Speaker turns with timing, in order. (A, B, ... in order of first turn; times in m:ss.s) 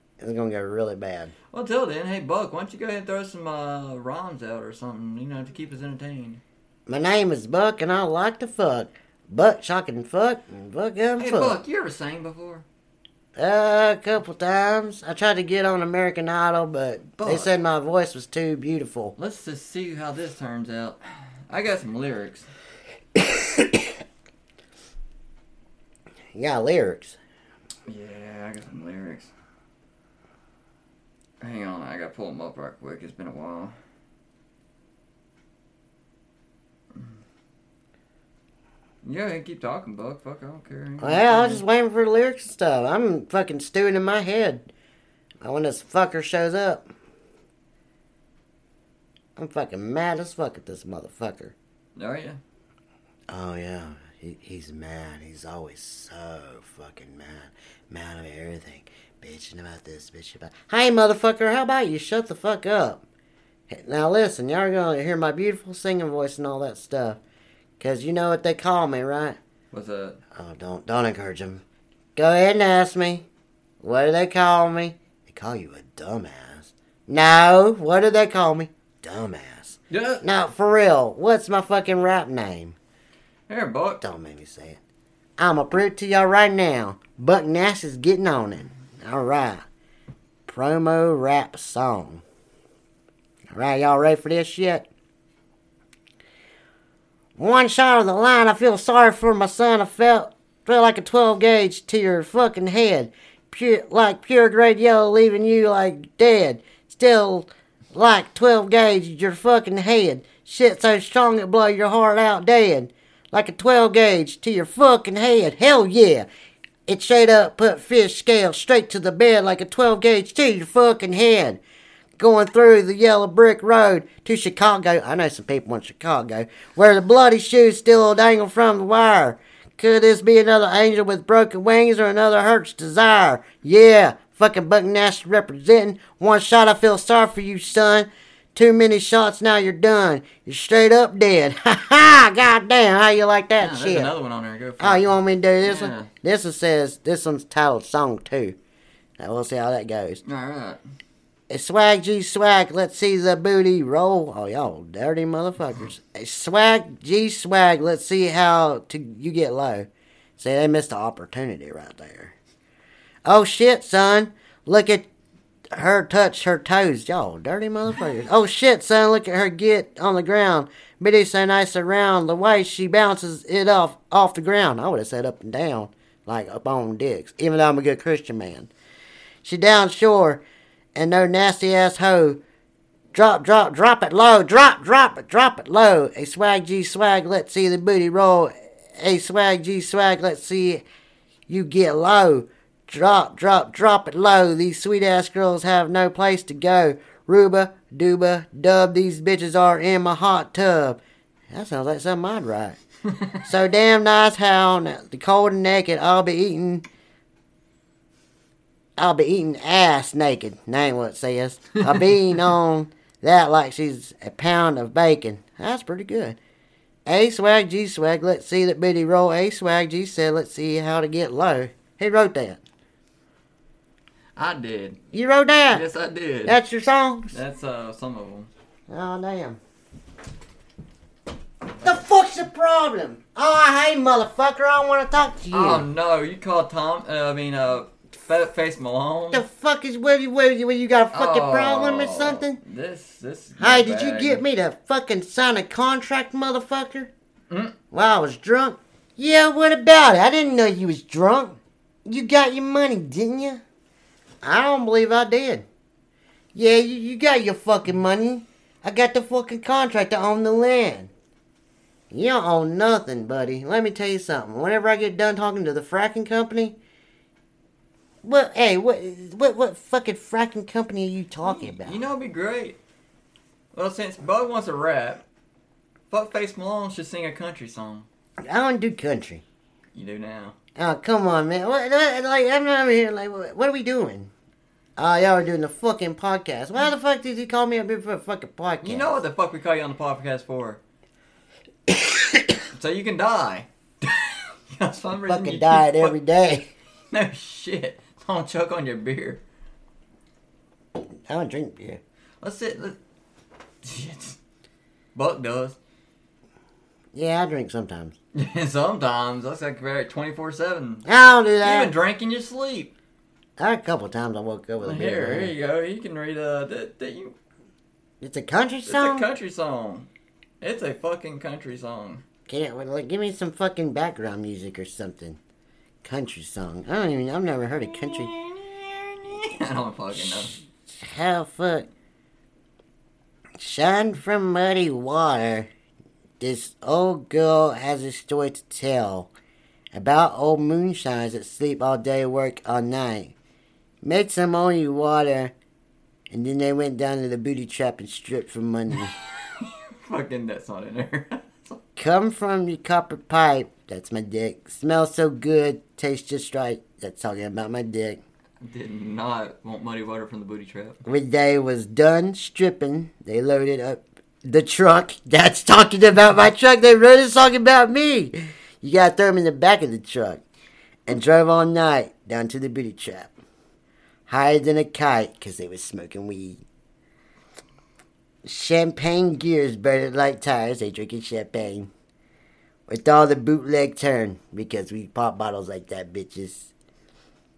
0:00.2-0:01.3 A
0:01.5-0:06.4 B
0:06.9-0:11.6 A
0:11.2-0:12.6 B
0:13.4-0:19.1 A
0:17.2-0:17.5 B
0:19.2-0:21.0 B
0:21.5-0:22.5 B
0:23.2-0:23.8 A
0:26.3-0:27.2 A
0:27.9-0:29.3 B
0:31.4-0:33.7 B
0:39.0-0:41.6 B
0:41.0-0:44.7 A
0:45.4-0:46.8 A
0:49.4-0:51.5 A
0:52.0-0:52.4 B
0:53.3-1:03.0 A
1:03.7-1:07.2 A
1:07.8-1:09.4 A
1:09.7-1:10.2 B
1:10.3-1:11.6 A
1:12.1-1:13.2 A
1:13.8-1:22.8 A
1:19.9-1:20.2 B
1:23.5-1:24.0 B
1:24.0-1:24.8 A
1:25.4-1:29.6 A
1:30.4-1:32.2 A
1:33.5-1:34.9 A
1:37.4-1:56.3 A
1:56.9-2:01.6 A
2:02.2-2:24.1 A
2:23.6-2:26.1 B
2:24.8-2:28.6 A
2:29.2-2:30.2 A
2:30.2-2:30.8 B
2:31.5-2:42.3 A
2:43.2-2:45.1 A
2:45.7-2:58.7 A
2:59.4-3:00.4 A
3:00.9-3:02.4 A
3:03.1-3:10.8 A
3:11.5-3:21.0 A
3:21.5-3:22.8 A
3:23.4-3:26.8 A
3:29.0-3:36.4 A
3:37.0-3:42.6 A
3:44.4-3:45.0 B
3:45.1-3:45.8 A
3:45.7-3:46.6 B
3:46.4-3:47.4 A
3:47.3-3:48.5 B
3:48.9-3:49.6 A
3:51.8-3:55.8 A
3:55.5-3:59.4 B
3:59.3-4:02.6 A
4:01.1-4:04.4 B
4:03.6-4:07.1 A
4:07.9-4:13.6 A
4:14.4-4:15.6 A
4:16.5-4:21.1 A
4:22.1-4:26.8 A
4:28.2-4:32.0 A
4:31.4-4:32.8 B
4:33.7-4:35.2 B
4:36.1-4:38.1 B
4:38.4-4:39.4 A
4:39.9-4:40.6 B
4:40.8-4:44.3 A
4:45.0-4:49.1 A
4:48.8-4:50.8 B
4:51.9-4:52.4 A
4:52.7-4:56.1 B
4:55.3-4:56.7 A
4:57.1-4:59.4 B
5:01.3-5:02.0 A
5:02.4-5:03.0 B
5:03.8-5:04.4 B
5:05.1-5:05.8 B
5:07.1-5:08.2 A
5:08.3-5:11.0 B
5:11.0-5:11.9 A
5:11.6-5:12.9 B
5:13.6-5:15.5 A
5:14.8-5:17.3 B
5:18.2-5:19.3 A
5:18.9-5:20.1 B
5:20.6-5:22.2 B
5:22.5-5:25.4 A
5:26.0-5:28.3 A
5:27.9-5:30.6 B
5:30.9-5:31.9 A
5:33.6-5:35.7 A
5:36.4-5:39.3 A
5:39.9-5:43.3 A
5:44.0-5:45.5 A
5:46.3-5:49.1 A
5:49.4-5:51.8 B
5:52.0-5:58.2 A
5:58.6-6:01.0 B
6:01.0-6:10.4 A
6:11.1-6:13.3 A
6:14.3-6:16.6 A
6:18.4-6:21.9 A
6:22.9-6:26.7 A